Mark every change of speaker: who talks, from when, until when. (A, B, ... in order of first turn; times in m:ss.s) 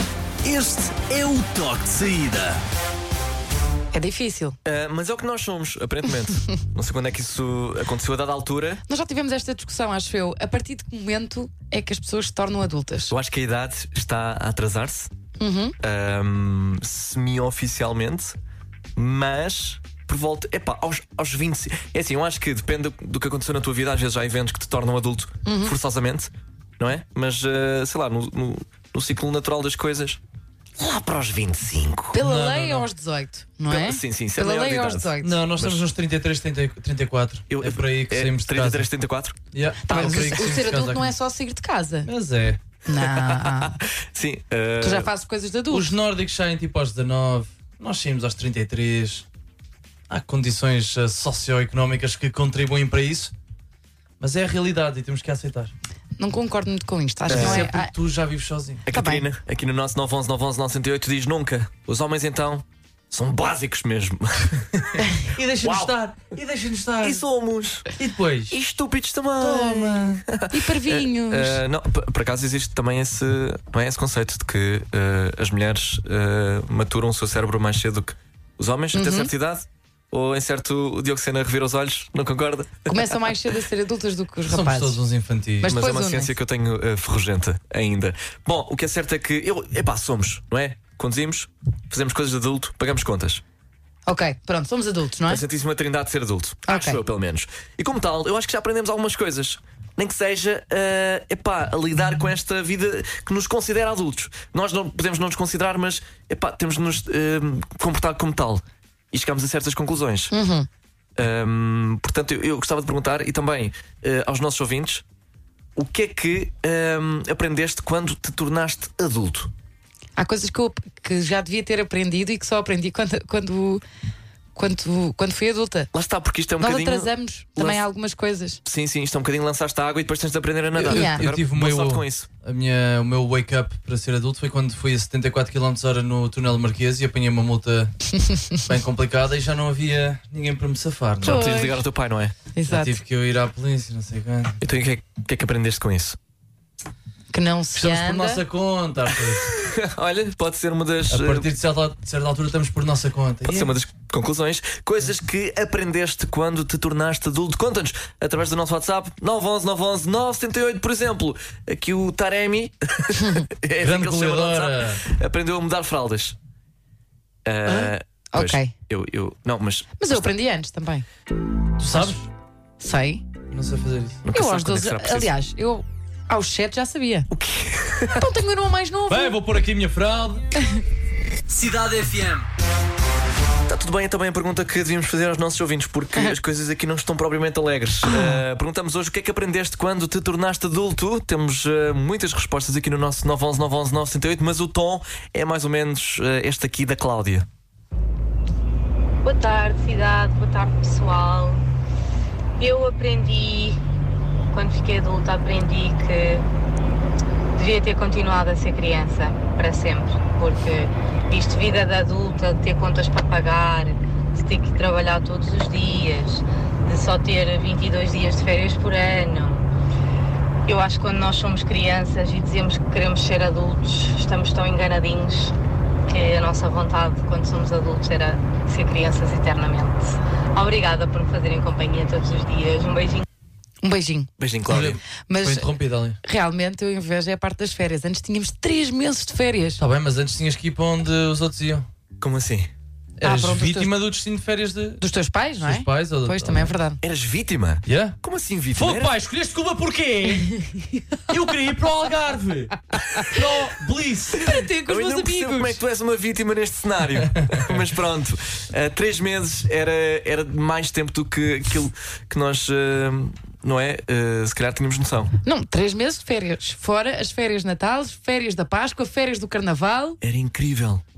0:00.4-0:02.6 A
0:03.9-0:04.6 B
0:04.6-0:08.8 C
0:08.9-0:13.1 B
0:13.1-0:15.1 C
0:15.4-0:15.8 B
0:15.8-0:18.4 C
0:19.0-0:30.2 C
0:25.4-0:25.7 B
0:30.8-0:32.2 C
0:32.1-0:35.4 B
0:32.2-0:32.9 D
0:33.7-0:35.8 C
0:35.2-0:38.9 D
0:37.5-0:40.5 C
0:39.5-0:41.2 D
0:39.8-0:42.1 B
0:42.0-0:42.6 D
0:42.8-0:43.8 B
0:43.0-0:45.1 C
0:44.8-0:45.9 B
0:45.7-0:49.2 D
0:50.1-0:53.3 D
0:54.2-0:55.7 D
0:56.2-0:57.9 B
0:57.3-0:57.7 C
0:57.3-0:58.8 D
0:58.9-1:05.1 C
0:58.9-0:59.2 B
1:05.3-1:07.2 D
1:05.6-1:05.9 C
1:07.0-1:07.9 C
1:08.0-1:08.6 D
1:08.5-1:23.0 C
1:09.4-1:10.2 D
1:10.5-1:11.6 B
1:18.9-1:19.3 B
1:22.9-1:25.0 B
1:24.4-1:25.8 D
1:25.6-1:26.3 B
1:25.6-1:33.4 C
1:34.1-1:35.4 B
1:35.3-1:50.3 C
1:36.6-1:37.0 B
1:50.3-1:50.7 B
1:51.2-1:55.0 C
1:55.8-1:59.5 C
2:00.2-2:03.8 B
2:04.5-2:05.9 B
2:05.9-2:07.8 C
2:06.6-2:08.6 B
2:08.6-2:12.3 C
2:10.8-2:11.2 B
2:10.8-2:17.9 D
2:18.6-2:21.8 D
2:21.2-2:21.7 B
2:21.2-2:22.3 C
2:22.5-2:23.0 B
2:22.7-2:24.6 D
2:24.6-2:26.2 C
2:27.3-2:28.4 B
2:27.7-2:29.5 D
2:29.4-2:31.4 C
2:31.1-2:33.7 D
2:33.5-2:46.4 C
2:43.2-2:43.4 B
2:43.8-2:45.0 D
2:47.4-2:50.2 C
2:47.6-2:48.7 B
2:50.0-2:51.0 B
2:51.8-2:52.3 D
2:52.8-2:53.2 B
2:53.5-2:54.2 D
2:54.3-2:55.3 C
2:54.3-2:57.3 B
2:57.3-2:58.3 C
2:58.1-2:59.4 B
2:59.1-3:00.5 D
3:01.5-3:02.4 D
3:03.7-3:17.5 C
3:08.1-3:08.4 B
3:19.2-3:21.6 E
3:22.6-3:23.8 E
3:24.5-3:26.4 E
3:27.6-3:39.7 E
3:40.6-3:45.5 E
3:46.1-3:53.2 E
3:53.8-3:54.3 B
3:54.4-3:55.0 C
3:54.6-3:56.2 D
3:55.3-3:59.8 B
3:59.8-4:01.9 D
4:02.2-4:02.7 C
4:03.2-4:05.0 D
4:03.3-4:03.7 C
4:03.4-4:03.7 B
4:05.0-4:07.0 B
4:05.6-4:06.7 D
4:07.0-4:09.1 C
4:07.8-4:08.2 D
4:08.7-4:10.5 D
4:11.3-4:14.4 D
4:14.4-4:15.8 B
4:14.5-4:25.3 C
4:25.4-4:30.2 B
4:30.2-4:31.0 C